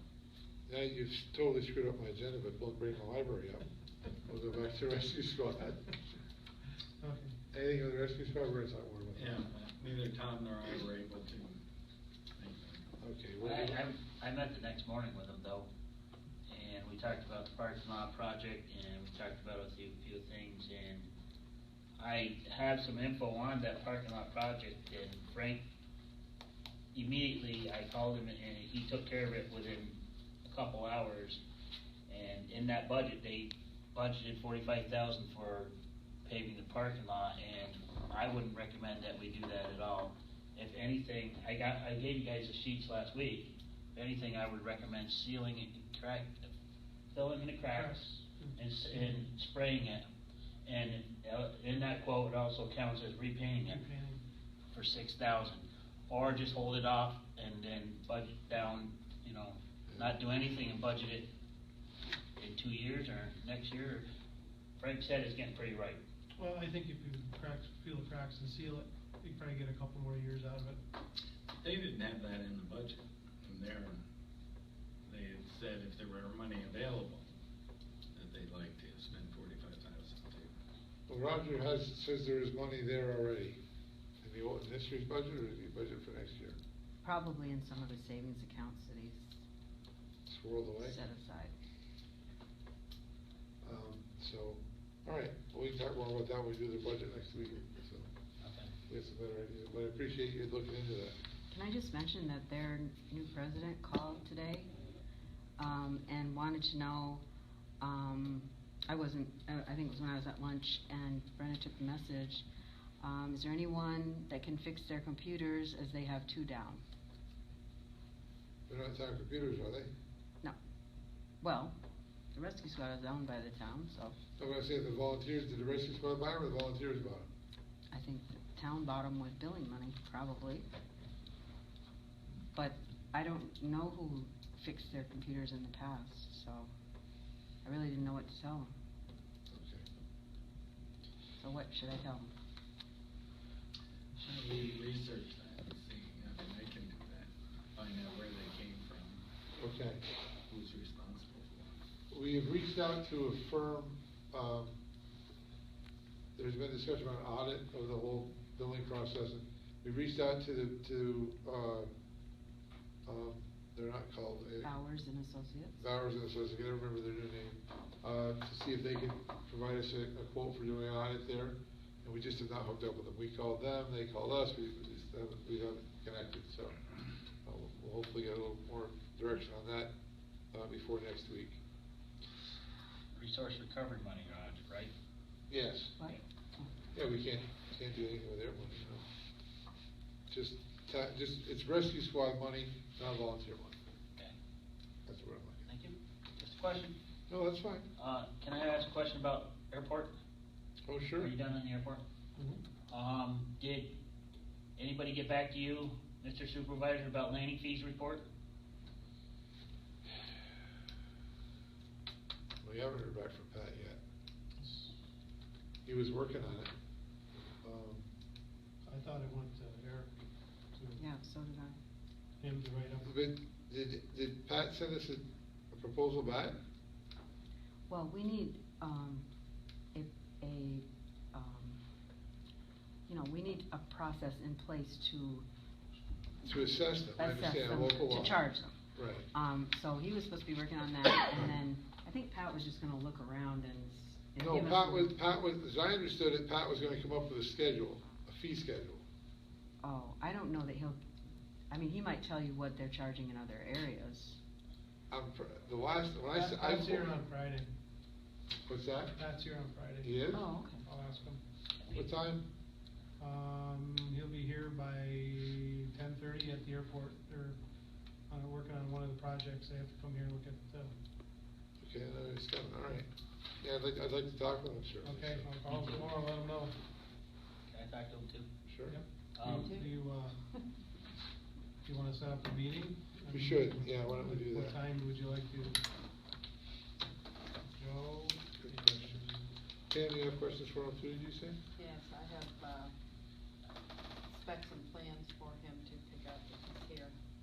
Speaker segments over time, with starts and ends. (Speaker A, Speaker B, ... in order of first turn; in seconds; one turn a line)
Speaker A: 0.7-3.7
Speaker A: 4.2-6.0
Speaker B: 7.0-7.3
Speaker A: 7.5-9.4
Speaker C: 9.1-11.6
Speaker C: 12.3-12.9
Speaker A: 13.0-13.8
Speaker D: 13.4-15.7
Speaker D: 16.5-21.1
Speaker D: 22.0-25.6
Speaker D: 26.9-31.4
Speaker D: 32.1-35.7
Speaker D: 36.2-46.5
Speaker D: 47.1-48.0
Speaker B: 47.7-49.2
Speaker D: 48.6-50.0
Speaker D: 50.6-53.8
Speaker B: 53.6-54.2
Speaker D: 54.7-61.3
Speaker D: 62.4-64.0
Speaker D: 64.8-66.0
Speaker B: 66.4-70.8
Speaker C: 71.6-74.0
Speaker C: 75.0-77.3
Speaker C: 78.1-80.5
Speaker A: 81.1-83.6
Speaker A: 84.2-86.6
Speaker E: 87.0-89.4
Speaker A: 90.2-91.0
Speaker E: 90.8-91.5
Speaker A: 93.6-98.1
Speaker D: 98.4-98.7
Speaker A: 98.9-101.2
Speaker E: 101.5-104.7
Speaker E: 105.6-107.2
Speaker E: 107.8-112.4
Speaker E: 113.0-116.8
Speaker A: 118.7-119.9
Speaker E: 121.4-121.7
Speaker E: 122.3-124.2
Speaker A: 124.4-127.3
Speaker E: 127.9-130.7
Speaker E: 132.5-136.7
Speaker E: 137.6-138.7
Speaker A: 139.5-139.8
Speaker E: 141.4-142.3
Speaker C: 144.2-149.2
Speaker A: 149.6-150.0
Speaker C: 150.5-151.8
Speaker A: 152.1-154.8
Speaker A: 156.3-161.9
Speaker A: 163.1-164.7
Speaker E: 164.6-165.8
Speaker A: 165.8-176.8
Speaker A: 177.4-179.9
Speaker A: 180.5-181.6
Speaker D: 183.1-184.9
Speaker A: 185.5-185.9
Speaker E: 186.0-186.7
Speaker A: 186.9-189.0
Speaker A: 190.3-193.8
Speaker A: 195.1-195.6
Speaker D: 195.7-196.9
Speaker A: 197.3-197.9
Speaker D: 198.0-200.1
Speaker A: 200.9-201.3
Speaker D: 201.2-202.0
Speaker B: 202.3-202.6
Speaker D: 202.9-203.9
Speaker D: 204.8-208.2
Speaker A: 212.6-214.0
Speaker B: 214.6-214.9
Speaker A: 215.8-216.7
Speaker A: 217.6-218.1
Speaker B: 218.9-220.1
Speaker B: 220.7-221.0
Speaker E: 221.0-221.8
Speaker B: 222.4-223.1
Speaker A: 223.0-226.6
Speaker E: 227.9-229.2
Speaker E: 229.9-231.8
Speaker E: 233.1-235.4
Speaker A: 236.4-238.4
Speaker E: 237.2-238.7
Speaker A: 238.9-239.3
Speaker E: 239.3-245.1
Speaker A: 244.4-249.0
Speaker E: 249.8-251.0
Speaker E: 251.7-254.4
Speaker A: 255.1-257.1
Speaker B: 256.3-257.7
Speaker A: 258.6-259.1
Speaker B: 259.1-260.1
Speaker A: 260.0-260.4
Speaker E: 260.3-260.8
Speaker B: 260.8-261.4
Speaker D: 261.8-262.1
Speaker A: 261.9-262.5
Speaker B: 263.2-267.6
Speaker B: 268.3-270.9
Speaker A: 271.8-273.1
Speaker A: 273.6-275.5
Speaker B: 275.0-276.7
Speaker D: 275.6-276.1
Speaker D: 277.7-278.5
Speaker A: 278.6-279.0
Speaker B: 278.9-280.4
Speaker D: 279.4-279.7
Speaker E: 279.4-279.9
Speaker B: 281.8-285.8
Speaker A: 283.3-284.8
Speaker B: 287.7-289.5
Speaker A: 288.6-289.2
Speaker A: 289.9-291.6
Speaker E: 291.8-292.8
Speaker E: 294.4-297.1